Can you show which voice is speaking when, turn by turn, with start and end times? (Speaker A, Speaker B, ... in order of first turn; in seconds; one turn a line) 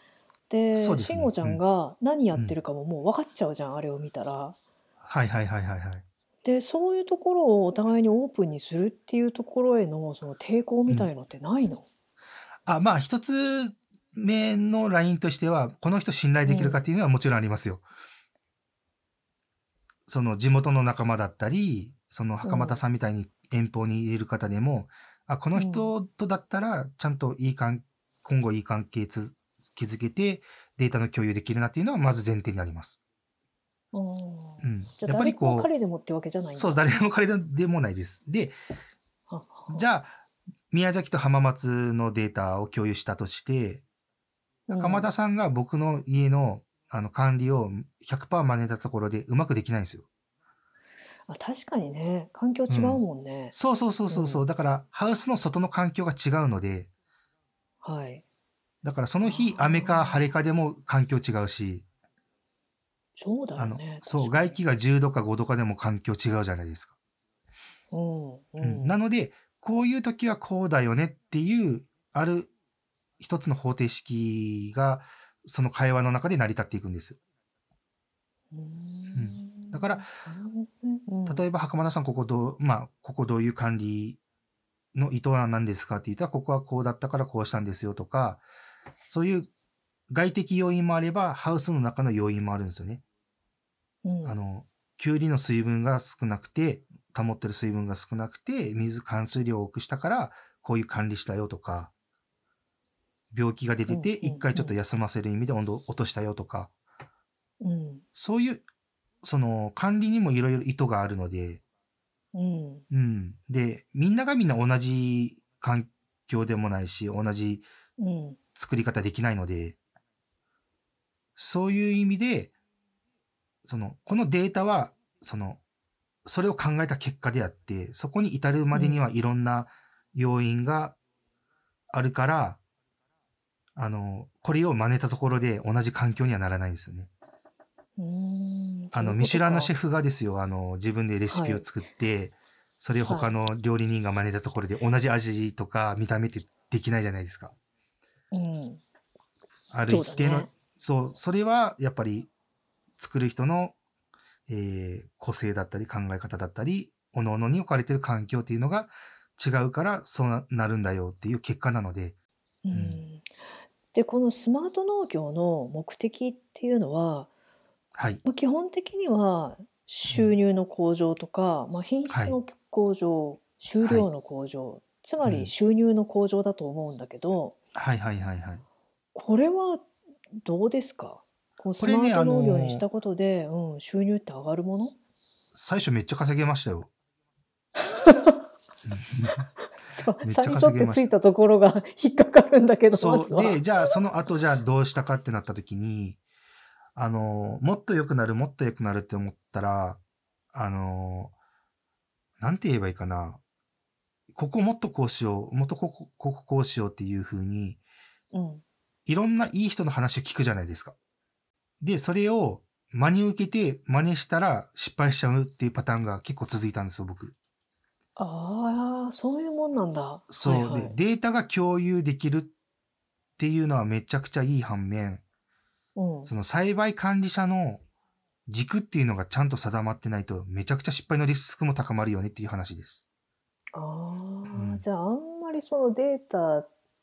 Speaker A: 0.5-4.5
Speaker B: 0.7-1.6
Speaker B: 5.0-6.0
Speaker A: 6.4-11.8
Speaker B: 12.7-17.8
Speaker A: 16.4-16.8
Speaker B: 20.1-33.0
Speaker A: 22.4-22.8
Speaker A: 25.5-25.9
Speaker A: 33.9-36.8
Speaker B: 34.6-35.7
Speaker B: 36.5-38.5
Speaker A: 39.3-39.8
Speaker B: 39.7-40.2
Speaker B: 40.7-43.8
Speaker A: 44.7-45.1
Speaker B: 44.7-50.1
Speaker A: 51.3-53.5
Speaker B: 52.7-53.0
Speaker B: 53.5-56.9
Speaker A: 54.1-54.4
Speaker A: 57.8-58.2
Speaker B: 58.8-61.8
Speaker A: 59.2-60.2
Speaker A: 63.2-64.6
Speaker B: 63.6-67.0
Speaker A: 67.9-69.0
Speaker B: 68.6-72.5
Speaker B: 73.2-77.2
Speaker A: 78.5-81.4
Speaker B: 79.1-80.1
Speaker B: 81.2-84.2
Speaker B: 84.9-88.4
Speaker B: 89.1-89.5
Speaker B: 90.1-93.0
Speaker A: 94.0-94.4
Speaker B: 94.2-101.9
Speaker B: 103.3-106.7
Speaker A: 103.9-104.8
Speaker A: 107.6-108.0
Speaker B: 108.2-108.6
Speaker B: 109.2-111.6
Speaker A: 112.3-112.8
Speaker B: 112.9-117.7
Speaker A: 118.0-118.4
Speaker B: 118.5-119.8
Speaker B: 121.4-122.5
Speaker B: 123.6-125.6
Speaker B: 126.2-131.0
Speaker A: 128.7-129.0
Speaker B: 131.9-132.6
Speaker B: 133.7-137.1
Speaker A: 138.0-139.7
Speaker B: 138.9-147.5
Speaker A: 141.3-141.6
Speaker A: 143.1-143.3
Speaker A: 148.3-148.8
Speaker B: 149.7-152.3
Speaker A: 149.9-150.5
Speaker B: 153.0-153.7
Speaker B: 154.5-162.1
Speaker A: 162.6-163.3
Speaker B: 162.7-163.0
Speaker A: 163.9-167.3
Speaker B: 167.9-168.2
Speaker A: 168.2-177.6
Speaker B: 175.2-175.5
Speaker B: 177.7-178.6
Speaker A: 179.1-179.9
Speaker A: 180.4-184.9
Speaker B: 181.8-182.8
Speaker B: 185.5-186.9
Speaker A: 187.8-188.4
Speaker B: 188.8-189.5
Speaker A: 189.8-194.0
Speaker B: 190.2-191.1
Speaker B: 192.9-196.2
Speaker B: 196.9-200.0
Speaker B: 200.5-201.3
Speaker B: 202.4-203.4
Speaker B: 204.3-207.8
Speaker A: 208.3-208.6
Speaker B: 209.1-210.9
Speaker B: 211.8-217.3
Speaker A: 218.2-221.0
Speaker B: 220.3-222.5
Speaker B: 223.4-225.2
Speaker A: 225.9-226.3
Speaker B: 226.2-227.8
Speaker B: 228.5-233.0
Speaker A: 233.7-236.7
Speaker B: 234.5-234.8